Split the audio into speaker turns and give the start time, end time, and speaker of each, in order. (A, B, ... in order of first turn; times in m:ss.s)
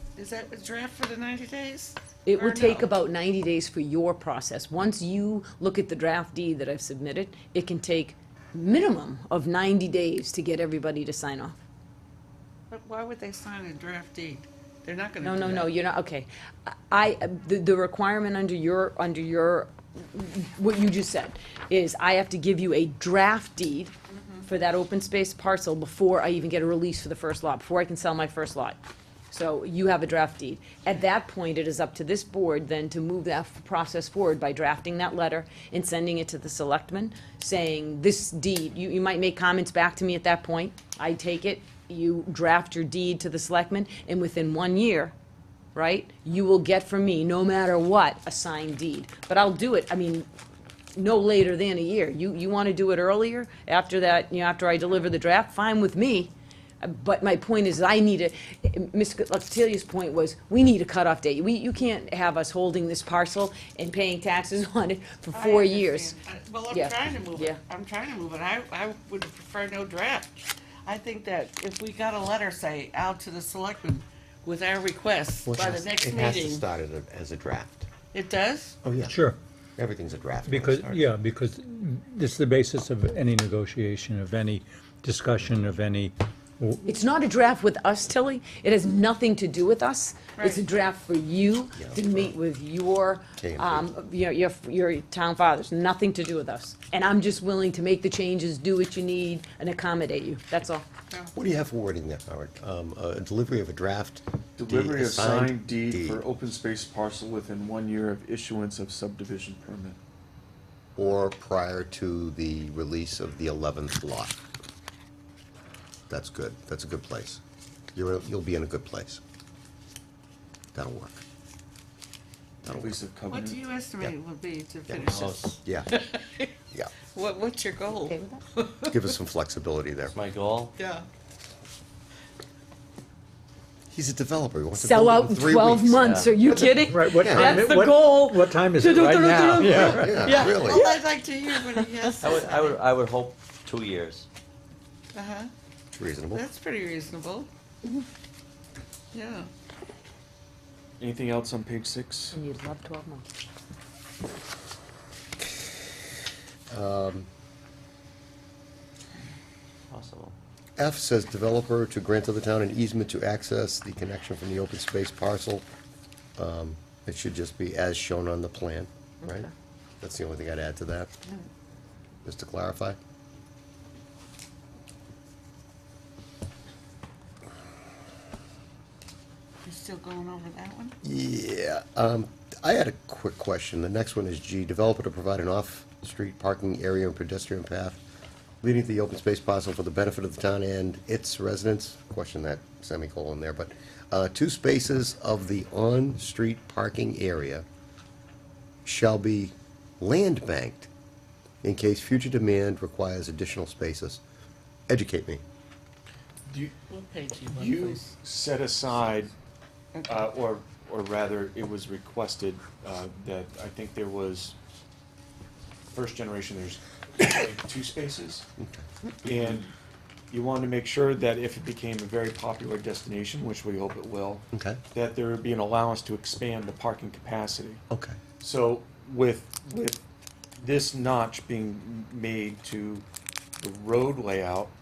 0:00.2-0:02.8 A
0:02.2-0:11.6 B
0:12.7-0:15.7 A
0:15.2-0:23.9 B
0:24.4-0:28.8 B
0:29.3-0:45.1 B
0:45.7-0:50.3 B
0:51.0-1:06.2 B
1:05.3-1:16.7 A
1:06.7-1:07.6 B
1:15.4-1:17.9 C
1:18.1-1:18.8 A
1:18.8-1:19.2 C
1:19.1-1:19.4 D
1:19.8-1:21.0 C
1:20.4-1:26.9 D
1:26.8-1:40.8 B
1:30.4-1:30.6 A
1:31.8-1:32.3 C
1:33.4-1:33.9 C
1:41.3-1:46.2 C
1:44.6-1:50.0 E
1:51.0-1:54.4 C
1:56.1-1:57.4 C
1:57.9-1:59.2 C
2:00.7-2:01.2 C
2:02.6-2:03.0 C
2:02.6-2:03.7 E
2:03.3-2:06.4 A
2:04.9-2:05.9 C
2:05.1-2:05.5 F
2:07.1-2:09.0 A
2:08.0-2:08.4 B
2:08.9-2:10.2 C
2:10.1-2:10.7 F
2:10.7-2:11.0 A
2:13.9-2:16.0 C
2:14.7-2:20.2 B
2:16.0-2:16.3 F
2:16.9-2:20.6 D
2:17.1-2:17.6 C
2:19.0-2:19.8 F
2:19.8-2:20.9 C
2:20.3-2:22.8 A
2:22.1-2:22.3 B
2:22.2-2:24.2 F
2:25.1-2:25.5 A
2:25.9-2:26.4 C
2:26.3-2:27.5 A
2:29.1-2:29.5 A
2:31.0-2:32.3 E
2:32.3-2:33.3 B
2:36.7-2:37.3 C
2:39.9-2:40.3 F
2:40.8-2:45.7 C
2:46.4-2:49.5 C
2:49.2-2:49.5 B
2:50.0-2:51.1 C
2:52.2-2:53.0 C
2:59.6-3:00.9 A
3:01.0-3:08.0 C
3:08.6-3:17.6 C
3:18.8-3:20.9 C
3:21.6-3:24.2 C
3:24.9-3:25.4 C
3:26.5-3:26.8 E
3:26.9-3:28.0 A
3:27.4-3:29.3 E
3:30.0-3:34.6 E
3:35.9-3:38.4 E
3:38.6-3:38.8 C
3:39.2-3:39.7 E
3:40.3-3:47.8 E
3:44.5-3:44.8 C
3:47.9-3:48.2 C
3:48.4-3:50.0 E
3:50.6-3:53.0 E
3:53.6-3:54.7 E